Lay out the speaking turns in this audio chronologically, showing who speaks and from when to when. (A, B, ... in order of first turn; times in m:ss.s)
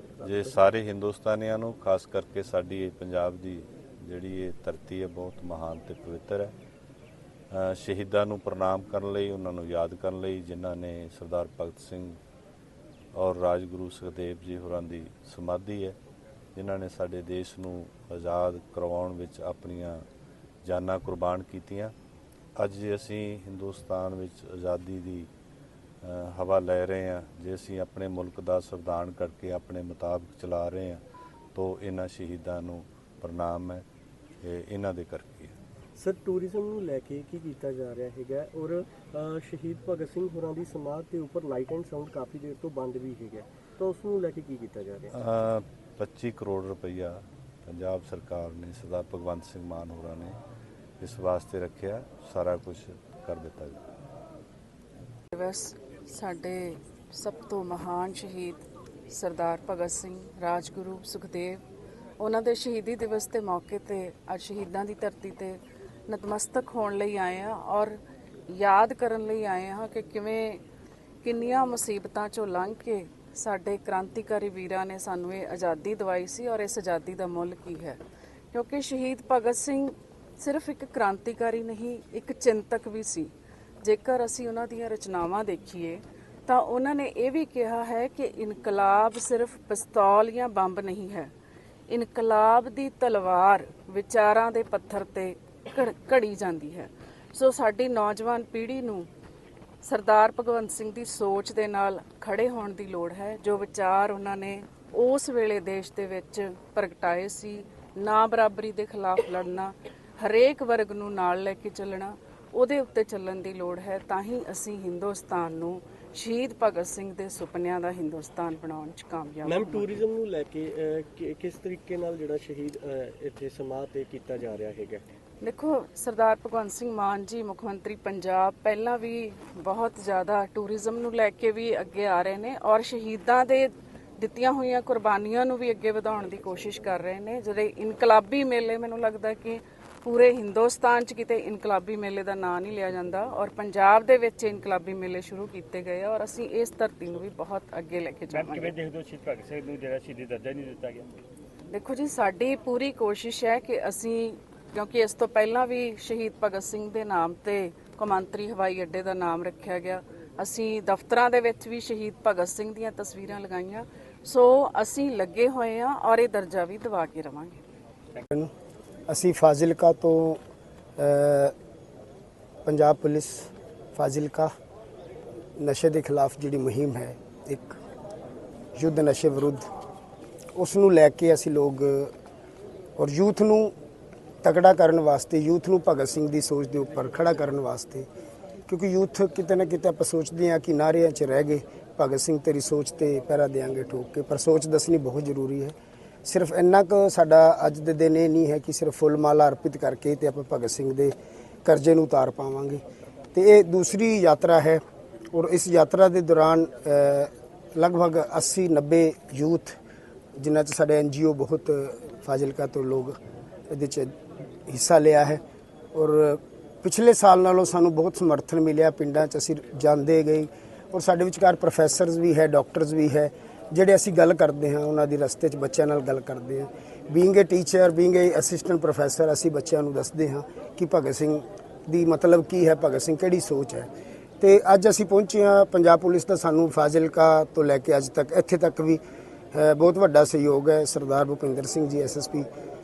0:00.1-0:00.7 A
0:00.2-0:06.5 B
0:07.5-0:12.2 B
0:13.1-0:16.0 B
0:16.6-0:20.0 B
0:20.6-0:21.9 B
0:22.6-0:25.3 B
0:26.0-0:31.0 B
0:31.5-0:33.8 B
0:34.4-0:35.5 B
0:36.0-0:45.1 A
0:45.1-0:47.1 B
0:47.6-0:50.4 B
0:51.0-0:53.8 B
0:55.3-1:01.6 C
1:02.2-1:10.6 C
1:11.2-1:18.0 C
1:18.5-1:23.3 C
1:23.8-1:31.3 C
1:31.9-1:39.1 C
1:39.8-1:59.9 C
1:59.4-2:05.0 A
2:05.4-2:28.7 C
2:28.3-2:31.0 D
2:31.7-2:47.6 C
2:49.1-2:50.4 E
2:51.0-2:51.5 E
2:52.6-2:54.5 E
2:55.6-2:57.8 E
2:58.8-2:59.7 E
3:00.5-3:02.1 E
3:03.0-3:03.7 E
3:04.4-3:08.1 E
3:08.7-3:22.8 E
3:23.3-3:24.8 E
3:25.3-3:29.8 E
3:30.4-3:33.2 E
3:33.7-3:34.1 E
3:34.7-3:35.4 E
3:35.9-3:53.9 E
3:54.4-3:59.0 E
3:59.5-4:02.5 E